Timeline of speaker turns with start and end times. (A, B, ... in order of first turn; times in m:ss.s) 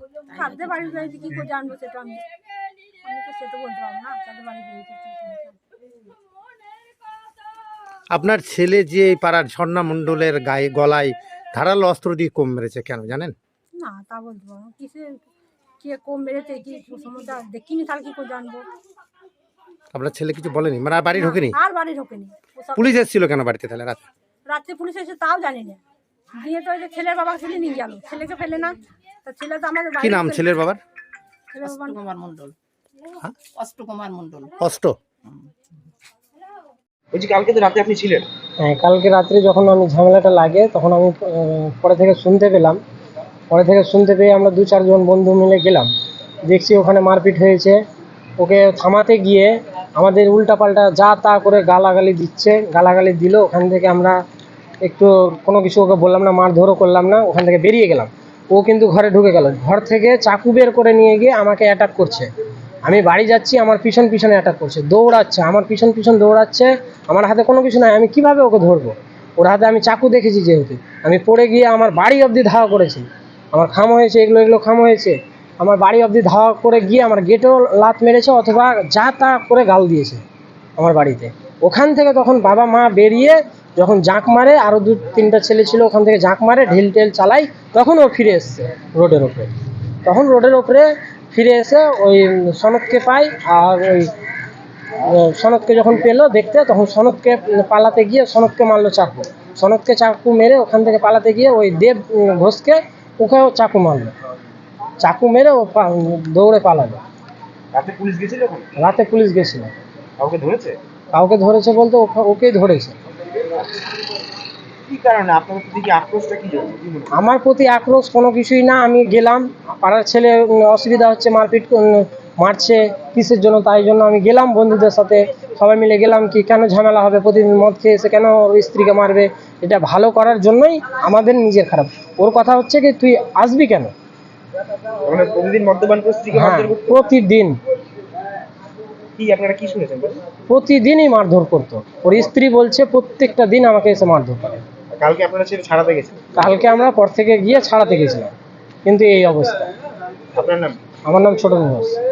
0:00.3-0:01.3 A
0:00.3-0:02.2 B
0:03.0-0:05.6 B
0:08.1-0:13.4 C
0:13.8-0:15.2 B
0:15.8-0:18.6 B
0:19.9-0:21.6 C
0:21.1-0:23.0 B
0:22.8-0:24.0 C
0:24.5-0:25.8 B
0:26.3-0:30.5 B
0:30.0-0:30.8 C
0:31.5-0:32.0 B
0:31.6-0:32.6 A
0:33.6-0:34.5 A
0:34.6-0:35.0 C
0:37.1-0:38.2 D
0:38.6-0:42.8 E
0:43.5-0:45.9 E
0:46.4-0:47.8 E
0:48.4-0:54.2 E
0:54.8-1:02.3 E
1:02.8-1:20.2 E
1:20.8-1:29.5 E
1:30.0-1:34.1 E
1:35.0-1:44.1 E
1:45.0-1:47.0 E
1:47.7-1:48.7 D
1:48.8-1:49.7 E
1:50.2-1:50.8 D
1:51.1-1:53.0 E
1:54.9-1:57.1 D
1:57.1-2:13.9 E
2:15.1-2:16.8 D
2:16.3-2:17.6 E
2:19.2-2:20.2 D
2:20.5-2:24.6 E
2:25.0-2:26.4 D
2:26.4-2:28.3 E
2:28.8-2:29.6 E
2:30.3-2:30.8 D
2:31.1-2:31.9 E